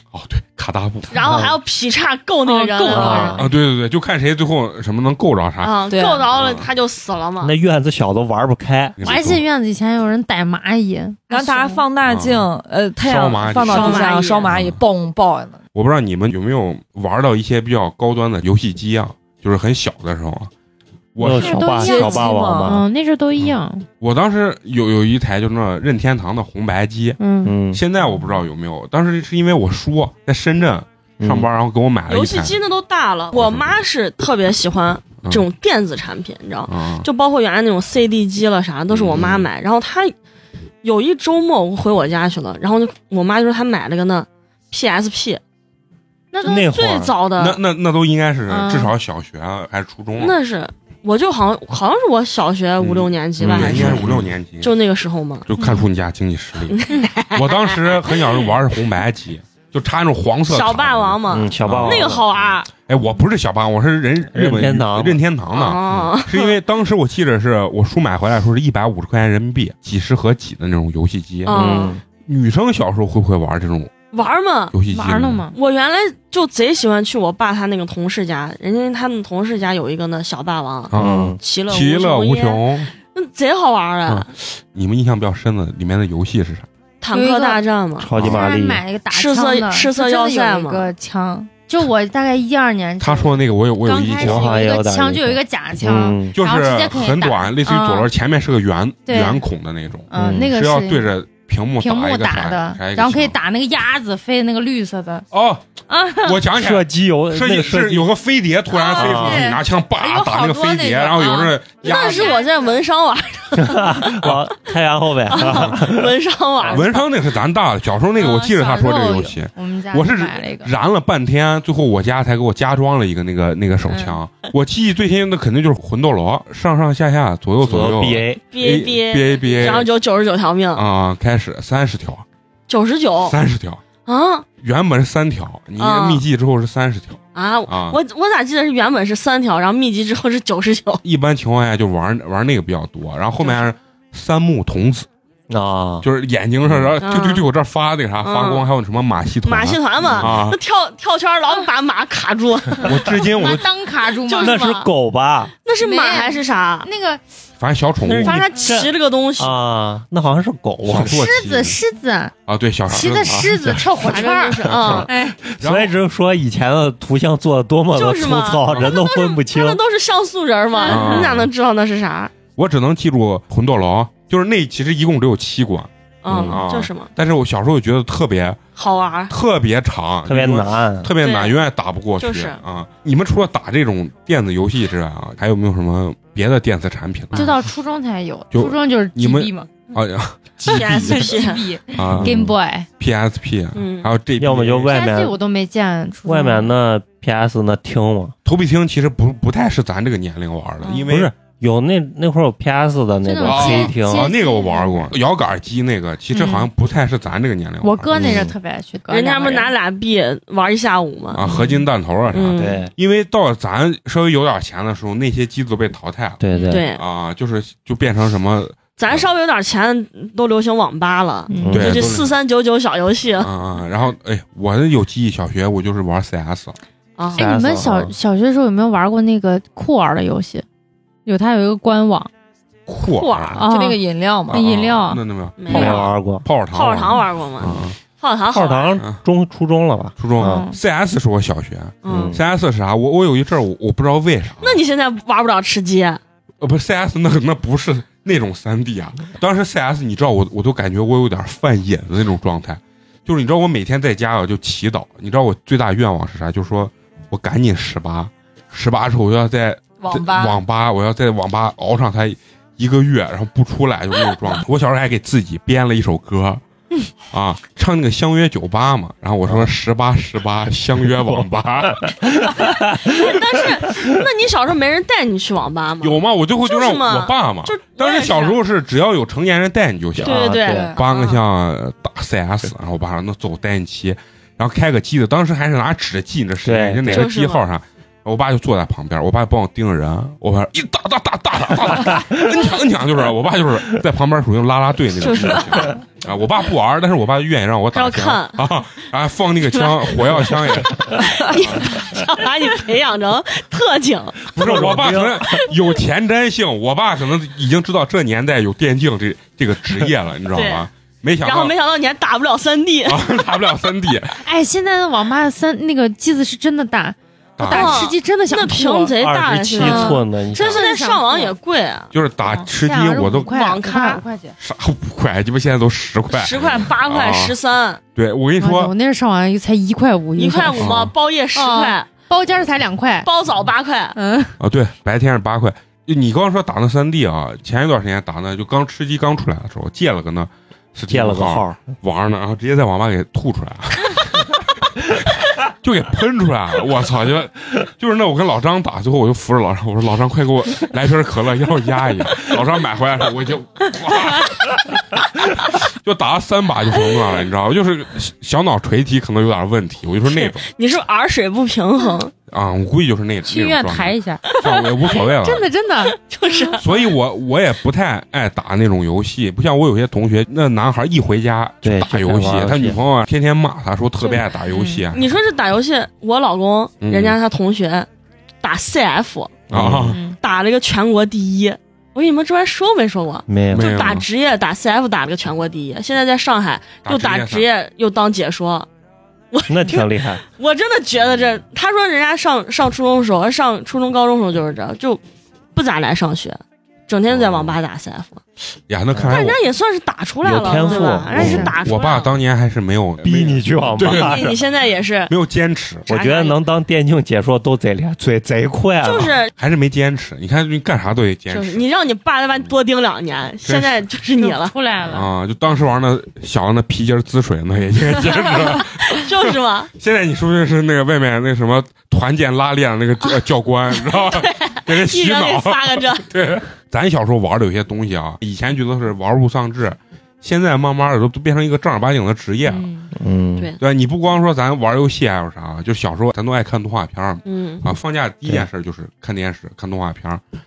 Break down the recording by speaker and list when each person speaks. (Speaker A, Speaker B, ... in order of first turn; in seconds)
Speaker A: 0.1-1.5, 3.4-5.8, 6.3-6.7, 9.0-9.4, 12.1-12.5, 13.0-14.8, 15.7-20.5, 21.1-21.6, 23.4-27.2, 27.7-32.6, 33.3-33.8, 36.7-37.0, 38.9-39.4, 47.4-50.4, 52.8-54.7, 55.5-73.9, 74.7-75.4, 80.9-82.9, 84.1-86.7, 88.2-88.4, 93.0-94.6, 96.3-103.3, 105.3-105.6, 106.2-112.4, 116.6-129.9, 130.7-132.2, 133.2-133.8, 134.6-138.0, 141.0-145.1, 146.0-150.6, 152.8-153.7, 157.6-158.5, 160.8-161.8, 162.5-163.9, 164.7-165.1, 165.6-165.9, 168.7-168.9, 170.8-171.5, 172.5-178.6, 179.3-187.6, 188.5-192.3, 193.0-195.0, 198.4-201.3, 203.4-208.4, 211.3-216.4, 216.9-219.3, 221.7-222.3, 223.4-226.8, 232.9-233.6, 234.5-237.9, 240.2-244.8, 246.6-266.6, 267.3-272.6, 276.0-302.0, 304.5-311.7, 313.1-314.4, 317.6-318.1, 322.1-323.5, 324.6-327.5, 328.1-328.9, 330.7-331.1, 334.6-354.8, 355.5-360.7, 362.5-365.7, 366.8-375.3, 377.0-377.4, 379.7-380.2, 383.7-384.2, 387.0-387.6, 397.3-397.8, 398.9-399.6, 401.4-404.5, 405.3-406.1, 409.5-411.8, 413.6-413.9, 415.1-433.0, 433.8-440.4
Speaker B: 1.1-3.3, 5.6-7.5, 13.6-14.5, 32.1-40.1, 40.8-45.4, 46.4-47.6, 50.2-55.5, 56.7-58.6, 60.5-62.7, 65.5-66.6, 71.5-71.9, 74.1-74.7, 75.5-84.3, 87.0-88.1, 89.1-90.9, 111.8-114.1, 115.3-117.1, 128.5-130.8, 132.7-133.4, 134.1-134.5, 135.8-136.2, 137.3-141.0, 147.0-147.4, 148.2-148.7, 149.4-153.0, 154.2-154.6, 155.6-156.9, 158.2-159.5, 164.0-165.1, 167.9-172.3, 176.2-177.1, 178.8-179.3, 181.2-181.6, 182.2-182.6, 190.7-191.7, 193.7-194.1, 209.1-211.4, 212.3-212.9, 216.7-217.0, 219.0-223.5, 227.2-227.4, 235.6-236.2, 236.7-239.0, 242.0-242.4, 244.6-246.2, 273.0-278.6, 280.2-281.4, 287.1-287.6, 295.2-295.9, 297.9-298.6, 299.6-304.9, 310.5-310.9, 311.4-313.4, 317.6-322.1, 323.5-324.2, 326.3-328.0, 330.4-332.1, 333.2-334.1, 360.3-362.3, 364.5-365.2, 366.2-367.1, 375.1-378.1, 378.6-379.7, 380.2-388.9, 389.5-395.2, 395.7-398.4, 399.2-402.4, 404.1-405.3, 406.1-406.6, 409.0-409.5, 411.5-414.7, 418.8-419.9, 423.2-426.2, 437.4-437.9
Speaker C: 1.2-1.5, 2.9-3.5, 7.4-9.1, 21.2-22.9, 27.4-27.8, 31.2-31.5, 46.4-47.2, 53.4-54.2, 61.3-62.2, 64.3-65.2, 71.5-72.0, 80.9-81.4, 88.0-88.8, 94.2-96.4, 100.2-100.5, 106.5-108.1, 108.9-109.5, 113.6-116.1, 127.6-128.5, 145.5-146.1, 146.7-146.9, 150.0-150.3, 154.4-155.5, 158.0-161.2, 164.7-169.8, 176.3-176.6, 180.2-181.1, 192.1-192.5, 194.4-195.3, 196.2-198.3, 201.1-204.3, 208.1-208.5, 212.5-212.9, 216.4-216.9, 221.6-222.1, 227.3-228.1, 235.7-236.5, 238.5-240.7, 242.1-242.4, 269.4-269.7, 271.1-273.3, 280.2-280.9, 286.6-287.3, 304.6-305.5, 319.2-320.8, 341.1-341.9, 371.8-373.0, 379.7-380.2, 383.5-383.9, 389.7-390.4, 399.1-399.4, 400.4-401.7, 403.2-404.6, 406.1-409.4, 433.2-433.7
Speaker D: 2.4-3.4, 9.0-11.8, 21.3-23.9, 27.2-27.5, 46.3-46.6, 48.5-48.9, 55.6-55.9, 74.9-75.5, 87.1-87.6, 88.2-98.1, 99.0-99.5, 100.1-101.1, 101.8-105.2, 105.9-106.4, 108.7-112.8, 118.2-120.7, 123.8-124.2, 153.3-154.9, 155.8-157.2, 161.0-162.3, 162.9-165.4, 170.8-171.2, 187.3-189.8, 190.8-192.9, 194.9-196.7, 203.2-205.1, 206.3-206.7, 207.8-209.7, 211.4-211.8, 216.5-216.8, 221.5-221.8, 227.4-230.6, 231.2-232.3, 233.1-236.0, 240.4-240.8, 314.4-319.1, 319.8-321.5, 322.4-324.6, 328.6-330.9, 331.5-333.3, 334.1-334.6, 363.4-364.6, 365.4-366.7, 374.2-375.0, 380.1-380.4, 400.7-401.7, 414.4-415.3, 432.6-433.1
Speaker E: 5.9-6.3, 11.3-15.6, 21.6-22.8, 233.6-234.6, 260.0-260.6, 280.7-281.0